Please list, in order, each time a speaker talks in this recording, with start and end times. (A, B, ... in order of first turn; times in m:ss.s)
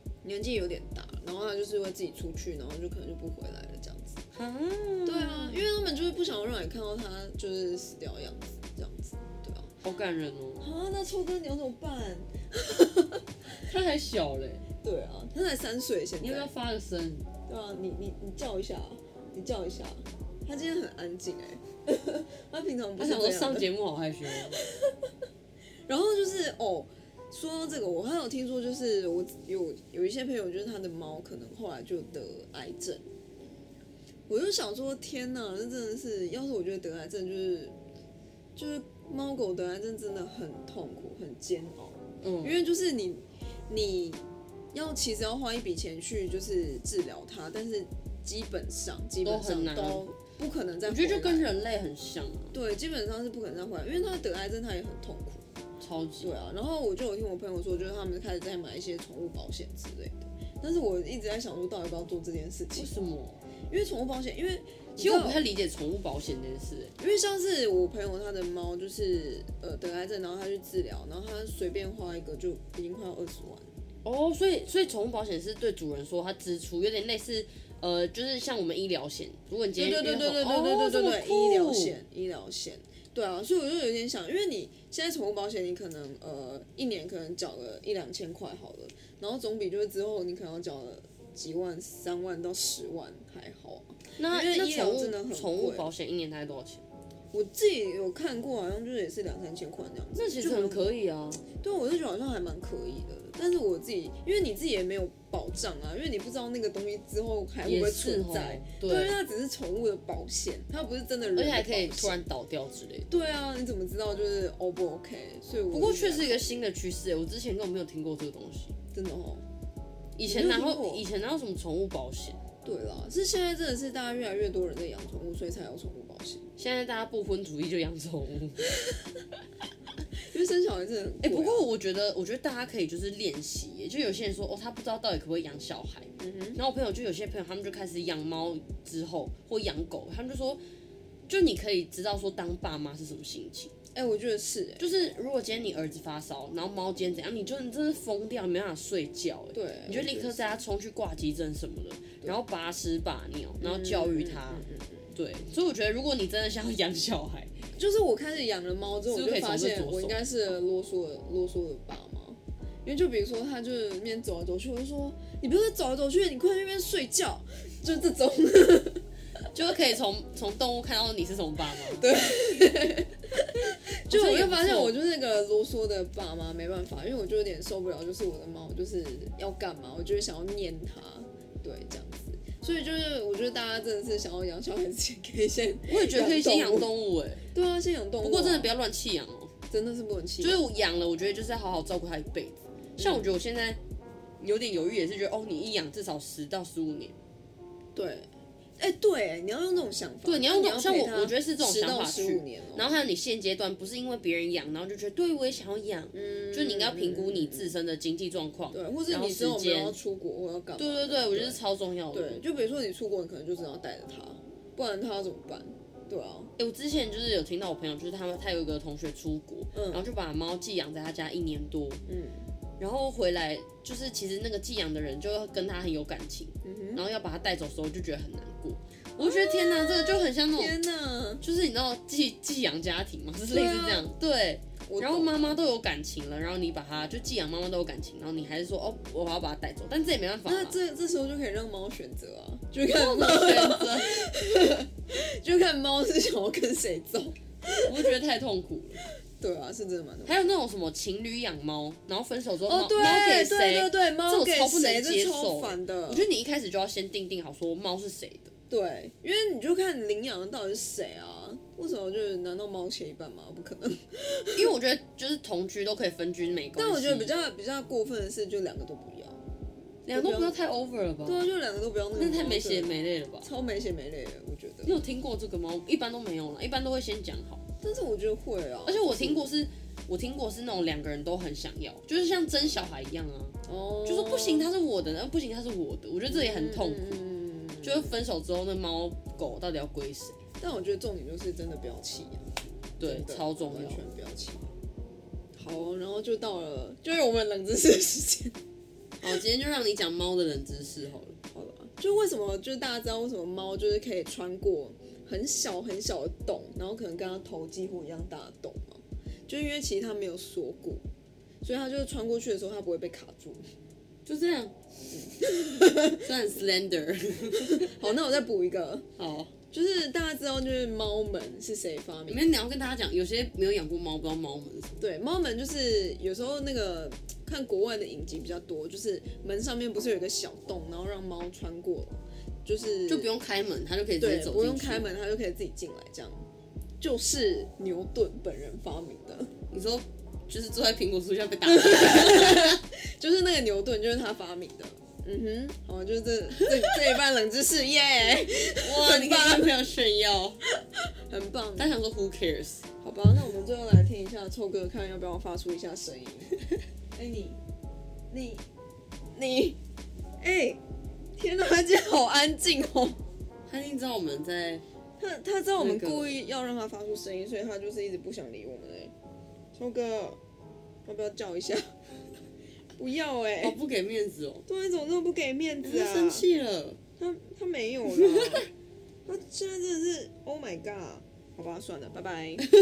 0:00.2-0:04.2 A
0:04.3-0:05.6 B
0:05.1-0:09.7 A
0:09.8-0:10.6 B
0:10.6-0:13.2 A
0:13.6-0:14.6 B
0:14.8-0:16.5 A
0:16.2-0:17.3 B
0:17.5-0:23.7 A
0:23.0-0:24.6 B
0:24.4-0:25.1 A
0:25.9-0:33.0 A
0:34.3-0:37.8 A
0:38.6-0:51.5 A
0:42.2-0:42.6 B
0:49.2-0:50.1 B
0:50.9-0:52.6 B
0:52.5-0:55.5 A
0:55.8-0:56.3 B
0:56.2-1:02.9 A
1:02.8-1:03.4 B
1:03.7-1:05.4 A
1:05.0-1:06.9 B
1:07.0-1:13.7 A
1:14.0-1:22.0 B
1:19.8-1:35.9 A
1:34.2-1:36.8 B
1:37.3-1:40.8 A
1:40.2-1:41.4 B
1:41.5-1:52.2 A
1:47.6-1:49.2 B
1:51.4-1:53.1 B
1:53.1-1:56.6 A
1:55.7-1:58.8 B
1:58.9-1:59.5 A
2:00.2-2:02.4 B
2:00.3-2:01.0 A
2:02.6-2:06.5 A
2:06.6-2:08.7 B
2:10.2-2:11.7 A
2:11.2-2:20.6 B
2:16.2-2:16.6 A
2:21.3-2:23.7 B
2:23.9-2:24.9 A
2:24.8-2:37.6 B
2:29.5-2:30.4 A
2:33.6-2:35.1 A
2:37.8-2:49.0 A
2:39.1-2:40.2 B
2:49.5-2:52.1 B
2:51.9-3:06.9 A
2:54.1-2:55.0 B
3:05.9-3:07.5 B
3:07.5-3:08.7 A
3:08.2-3:09.5 B
3:09.7-3:10.6 A
3:10.4-3:13.8 B
3:13.0-3:13.3 A
3:14.4-3:17.2 B
3:18.0-3:22.9 A
3:20.2-3:30.0 B
3:26.1-3:27.7 A
3:28.7-3:31.6 A
3:30.8-3:32.4 B
3:32.1-3:36.5 A
3:36.6-3:42.0 B
3:39.7-3:40.1 A
3:42.1-3:42.5 A
3:42.8-3:50.8 B
3:46.6-3:47.0 A
3:49.2-3:51.4 A
3:51.4-4:00.8 B
3:53.4-3:54.1 A
3:54.9-3:55.6 A
4:00.5-4:08.1 A
4:02.8-4:04.2 B
4:07.8-4:09.0 B
4:09.4-4:10.4 A
4:10.2-4:18.5 B
4:12.6-4:16.3 A
4:18.7-4:24.7 A
4:24.6-4:27.4 B
4:26.8-4:29.4 A
4:30.0-4:31.4 B
4:30.1-4:30.6 A
4:31.2-4:35.0 A
4:32.2-4:33.5 B
4:34.8-4:37.6 B
4:37.8-4:39.5 A
4:38.9-4:47.2 B
4:43.7-4:44.7 A
4:46.3-4:48.2 A
4:47.8-4:50.4 B
4:50.6-4:52.4 A
4:53.0-4:54.0 B
4:53.0-4:54.7 A
4:55.6-4:58.6 A
4:59.2-5:01.4 B
5:01.5-5:11.0 A
5:11.6-5:13.6 A
5:14.3-5:14.8 B
5:15.1-5:16.3 A
5:15.4-5:18.0 B
5:17.6-5:19.1 A
5:19.2-5:19.5 B
5:19.7-5:22.5 A
5:22.3-5:25.0 B
5:25.0-5:33.3 A
5:33.1-5:35.1 B
5:34.2-5:36.4 A
5:37.0-5:39.5 A
5:39.7-5:42.8 B
5:41.7-5:49.8 A
5:48.7-5:50.6 B
5:50.7-5:51.9 A
5:51.8-5:52.8 B
5:53.0-5:56.6 A
5:57.1-5:57.6 A
5:58.3-5:58.6 A
5:59.4-5:59.8 A
6:00.4-6:00.8 A
6:01.4-6:03.2 A
6:03.7-6:04.8 B
6:05.2-6:09.1 A
6:05.8-6:06.4 B
6:09.7-6:10.4 A
6:11.1-6:11.8 A
6:13.0-6:13.8 A
6:13.6-6:14.7 B
6:14.7-6:16.5 A
6:15.8-6:17.0 B
6:17.2-6:18.7 A
6:18.1-6:18.6 B
6:19.3-6:22.7 A